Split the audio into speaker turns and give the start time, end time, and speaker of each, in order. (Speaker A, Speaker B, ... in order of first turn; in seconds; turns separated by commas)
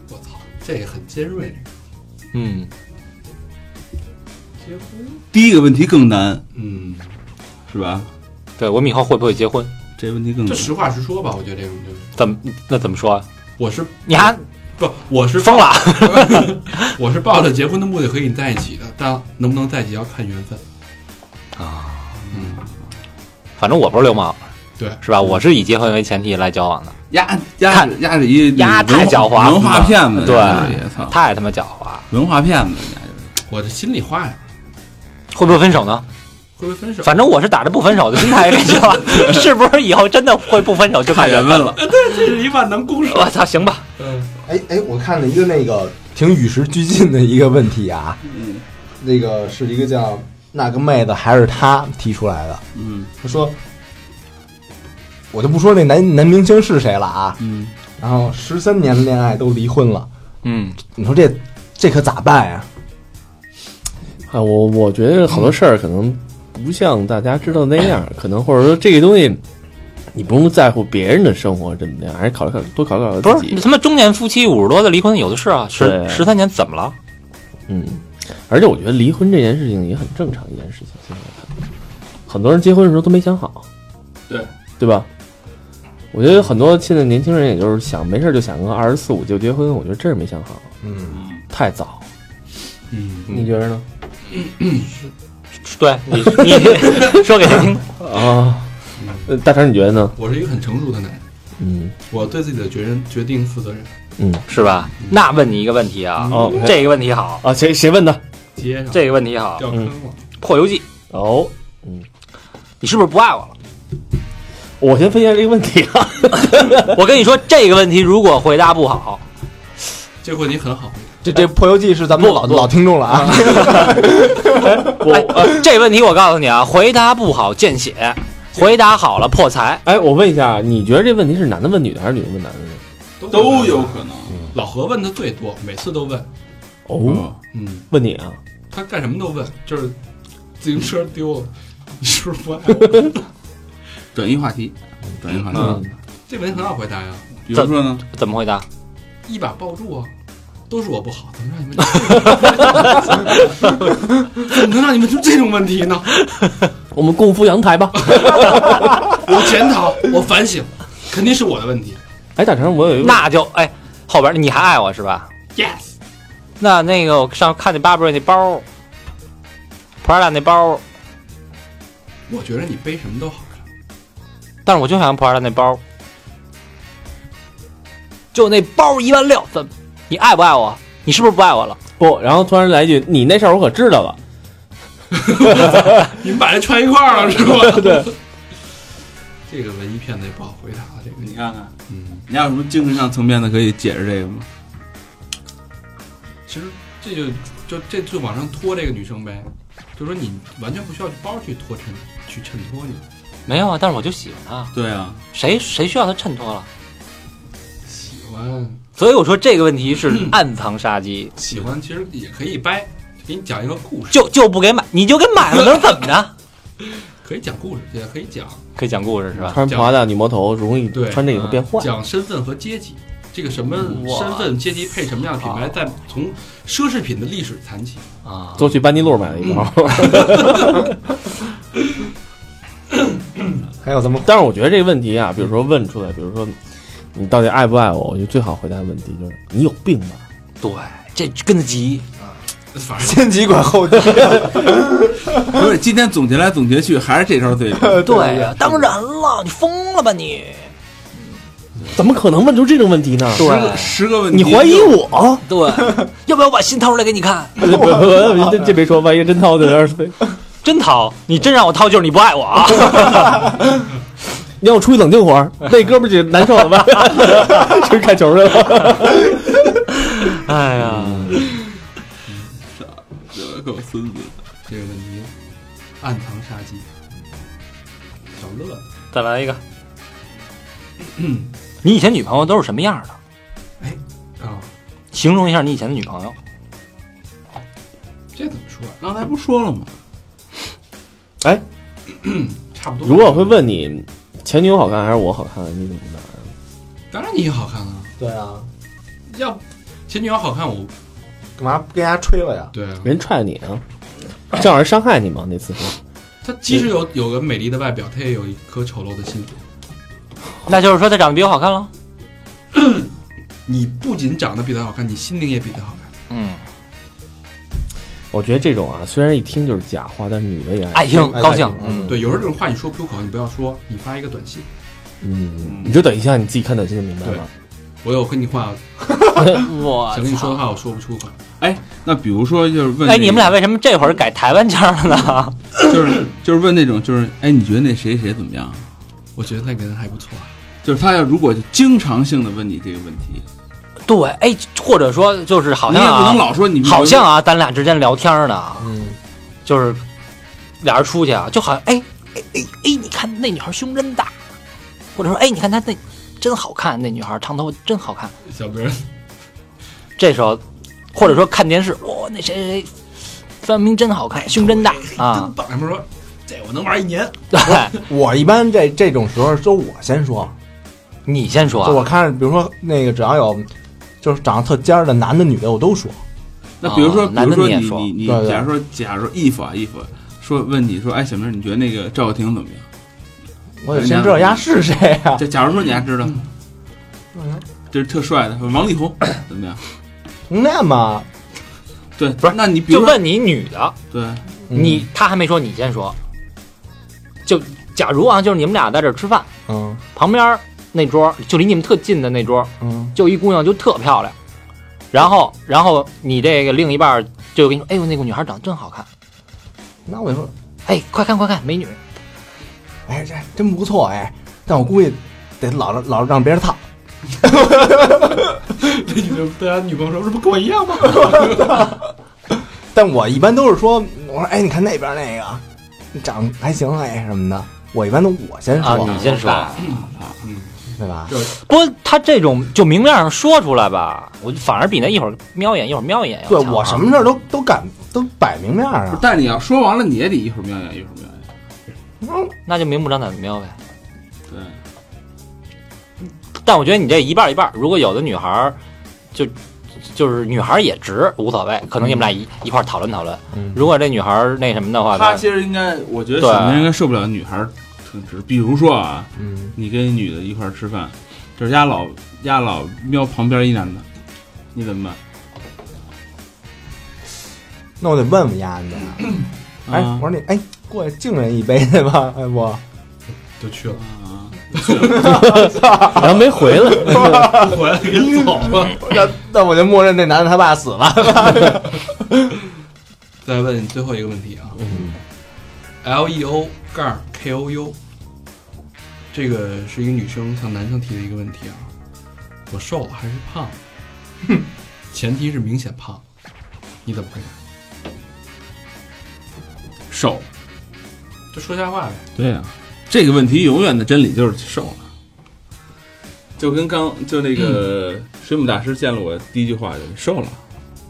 Speaker A: 0.1-1.7, Speaker B: 2.3-2.7, Speaker A: 4.6-5.2, Speaker C: 5.3-6.4, Speaker A: 6.5-7.1, Speaker C: 7.7-8.1, Speaker B: 8.6-9.7, Speaker C: 10.0-10.7, Speaker A: 10.4-12.1, Speaker B: 12.2-13.2, Speaker A: 13.6-20.6, Speaker B: 14.1-14.4, Speaker B: 15.4-16.9, Speaker B: 21.6-22.2, Speaker A: 22.3-22.7, Speaker B: 23.6-24.4, Speaker B: 25.0-26.9, Speaker C: 27.1-31.2, Speaker B: 28.5-32.0, Speaker C: 32.1-33.3, Speaker A: 33.5-34.4, Speaker B: 35.3-36.0, Speaker A: 36.6-37.2, Speaker B: 37.0-41.7, Speaker C: 41.1-41.9, Speaker A: 41.8-43.3, Speaker B: 43.1-43.8, Speaker A: 44.0-44.3, Speaker D: 44.5-48.2, Speaker C: 48.3-48.6, Speaker D: 49.0-52.6, Speaker C: 52.8-53.1, Speaker D: 53.2-53.6, Speaker D: 55.3-57.4, Speaker C: 57.4-57.7, Speaker D: 58.0-60.1, Speaker B: 60.4-60.8, Speaker D: 61.0-62.6, Speaker E: 64.3-69.4, Speaker E: 70.1-73.6, Speaker B: 73.2-76.9, Speaker E: 75.8-76.3, Speaker E: 77.7-81.5, Speaker E: 82.3-83.6, Speaker E: 84.8-85.1, Speaker E: 86.1-90.7, Speaker D: 90.8-91.2, Speaker E: 91.5-92.0, Speaker A: 92.9-93.3, Speaker E: 93.3-93.8, Speaker A: 94.3-94.9, Speaker B: 95.7-97.8, Speaker E: 96.2-96.6, Speaker E: 98.0-98.7, Speaker A: 99.0-99.3, Speaker E: 99.3-100.2, Speaker A: 100.2-101.2, Speaker E: 101.6-101.9, Speaker A: 102.1-103.9, Speaker E: 104.2-104.4, Speaker B: 104.5-107.4, Speaker E: 106.3-106.9, Speaker E: 107.4-108.2, Speaker A: 108.5-110.2, Speaker B: 108.9-109.6, Speaker B: 110.4-110.8, Speaker E: 111.1-112.0, Speaker B: 112.8-113.5, Speaker E: 114.8-117.0, Speaker B: 116.7-119.2, Speaker A: 120.2-121.2, Speaker D: 121.2-125.0, Speaker B: 122.2-122.7, Speaker E: 123.9-125.7, Speaker B: 125.0-129.8, Speaker E: 129.8-132.8, Speaker A: 133.2-134.0, Speaker C: 133.3-134.4, Speaker A: 134.5-136.3, Speaker E: 136.9-137.3, Speaker C: 137.0-137.4, Speaker A: 137.5-137.8, Speaker E: 137.9-138.4, Speaker A: 138.7-139.9, Speaker A: 140.6-143.2, Speaker C: 144.1-145.8, Speaker A: 145.5-147.3, Speaker C: 147.4-148.0, Speaker B: 147.5-148.6, Speaker A: 149.2-150.1, Speaker A: 150.7-156.1, Speaker E: 156.9-159.1, Speaker A: 158.0-162.0, Speaker E: 162.3-163.3, Speaker B: 163.0-165.3, Speaker A: 165.5-165.9, Speaker B: 166.6-168.6, Speaker B: 170.0-170.8, Speaker A: 172.3-173.6, Speaker B: 174.6-175.8, Speaker B: 178.3-181.8, Speaker E: 182.0-184.2, Speaker A: 185.1-188.1, Speaker E: 187.7-188.1, Speaker A: 189.5-191.3, Speaker C: 191.2-191.7, Speaker A: 191.9-192.2, Speaker C: 192.3-194.5, Speaker A: 196.5-203.0, Speaker B: 203.5-204.7, Speaker C: 204.7-205.2, Speaker B: 205.3-206.7, Speaker A: 207.9-208.8, Speaker B: 209.0-211.3, Speaker A: 210.1-210.4, Speaker A: 211.4-214.2, Speaker B: 214.1-216.3, Speaker A: 217.2-218.6, Speaker B: 218.8-219.6, Speaker A: 219.4-220.0, Speaker E: 219.5-221.9, Speaker A: 220.9-228.0, Speaker B: 223.8-224.6, Speaker B: 228.2-228.6, Speaker E: 228.6-230.9, Speaker A: 229.4-230.8, Speaker D: 233.8-234.3, Speaker E: 234.2-236.6, Speaker E: 237.1-240.2, Speaker B: 240.6-242.1, Speaker A: 242.7-243.4, Speaker D: 243.0-245.6, Speaker C: 245.4-248.1, Speaker D: 247.8-248.8, Speaker B: 248.0-250.7, Speaker E: 251.9-253.5, Speaker B: 253.3-253.9, Speaker C: 253.4-255.0, Speaker E: 254.3-255.4, Speaker B: 255.5-257.6, Speaker E: 257.6-260.2, Speaker D: 257.8-258.4, Speaker B: 260.6-263.4, Speaker E: 264.6-269.4, Speaker B: 270.2-271.4, Speaker E: 270.8-271.5, Speaker C: 272.7-274.3, Speaker A: 274.7-275.3, Speaker A: 276.0-276.9, Speaker A: 278.3-278.9, Speaker B: 279.1-279.6, Speaker A: 281.1-281.5, Speaker B: 281.8-283.1, Speaker A: 283.8-284.7, Speaker B: 285.1-286.4, Speaker A: 288.3-289.0, Speaker C: 289.0-289.9, Speaker A: 292.1-293.6, Speaker E: 293.0-296.5, Speaker A: 297.1-298.1, Speaker D: 298.2-298.7, Speaker A: 299.3-300.9, Speaker D: 301.6-302.7, Speaker A: 302.7-303.1, Speaker E: 303.0-303.8, Speaker E: 304.5-306.0, Speaker A: 306.4-309.6, Speaker B: 310.7-311.9, Speaker A: 312.7-313.1, Speaker A: 313.7-316.1, Speaker B: 316.3-316.6, Speaker E: 318.3-322.0, Speaker B: 320.9-321.8, Speaker D: 321.3-322.3, Speaker A: 322.0-324.7, Speaker E: 325.2-327.5, Speaker C: 325.6-326.0, Speaker A: 328.0-331.4, Speaker B: 329.4-330.6, Speaker C: 331.6-333.5, Speaker B: 333.0-335.6, Speaker C: 335.8-338.8, Speaker A: 339.4-340.6, Speaker C: 340.8-343.4, Speaker B: 344.1-348.9, Speaker C: 345.9-347.3, Speaker D: 348.8-349.2, Speaker B: 349.6-350.0, Speaker B: 350.8-354.3, Speaker B: 355.1-358.3, Speaker A: 358.4-359.0, Speaker B: 360.2-360.6, Speaker B: 361.1-362.9, Speaker B: 363.6-365.5, Speaker A: 364.6-367.4, Speaker B: 367.5-367.9, Speaker D: 367.8-370.5, Speaker B: 371.3-372.0, Speaker D: 371.8-373.7, Speaker D: 374.2-376.2, Speaker C: 376.8-382.8, Speaker B: 376.8-378.1, Speaker D: 378.2-378.7, Speaker D: 383.8-385.4, Speaker C: 383.9-384.6, Speaker C: 385.4-386.4, Speaker D: 387.3-387.6, Speaker C: 387.9-389.8, Speaker D: 390.5-391.3, Speaker C: 392.2-393.2, Speaker B: 392.4-393.9, Speaker C: 394.1-394.4, Speaker D: 394.7-395.1, Speaker B: 394.7-396.1, Speaker B: 397.4-399.5, Speaker D: 399.7-400.0, Speaker B: 400.1-404.3, Speaker D: 402.8-403.1, Speaker B: 405.1-409.1, Speaker D: 410.1-410.5, Speaker B: 410.9-412.0, Speaker D: 413.1-416.8, Speaker D: 417.4-418.4, Speaker A: 418.8-421.9, Speaker D: 421.1-421.9, Speaker D: 422.9-425.6, Speaker D: 426.1-429.3, Speaker B: 428.8-429.8, Speaker C: 428.9-430.4, Speaker A: 429.8-430.7, Speaker D: 430.9-431.4, Speaker B: 431.5-437.1, Speaker D: 436.5-439.3, Speaker C: 439.1-441.4, Speaker D: 442.2-442.5, Speaker B: 442.6-443.7, Speaker C: 444.5-444.8, Speaker B: 446.6-448.8, Speaker B: 450.1-455.4, Speaker D: 453.5-453.8, Speaker C: 455.1-464.0, Speaker B: 456.4-456.9, Speaker D: 459.4-459.7, Speaker C: 464.7-465.2, Speaker D: 468.0-472.8, Speaker C: 469.9-470.2, Speaker A: 473.6-474.0, Speaker C: 474.0-475.0, Speaker A: 474.7-475.7, Speaker D: 474.9-476.3, Speaker E: 475.2-477.7, Speaker D: 476.9-482.2, Speaker A: 477.1-479.0, Speaker A: 483.4-484.8, Speaker E: 484.8-485.1, Speaker A: 486.0-487.9, Speaker A: 489.3-491.9, Speaker A: 492.7-493.8, Speaker A: 495.1-496.2, Speaker A: 497.0-497.5, Speaker C: 500.1-500.4, Speaker A: 501.5-502.2, Speaker C: 502.4-505.0, Speaker C: 506.6-510.6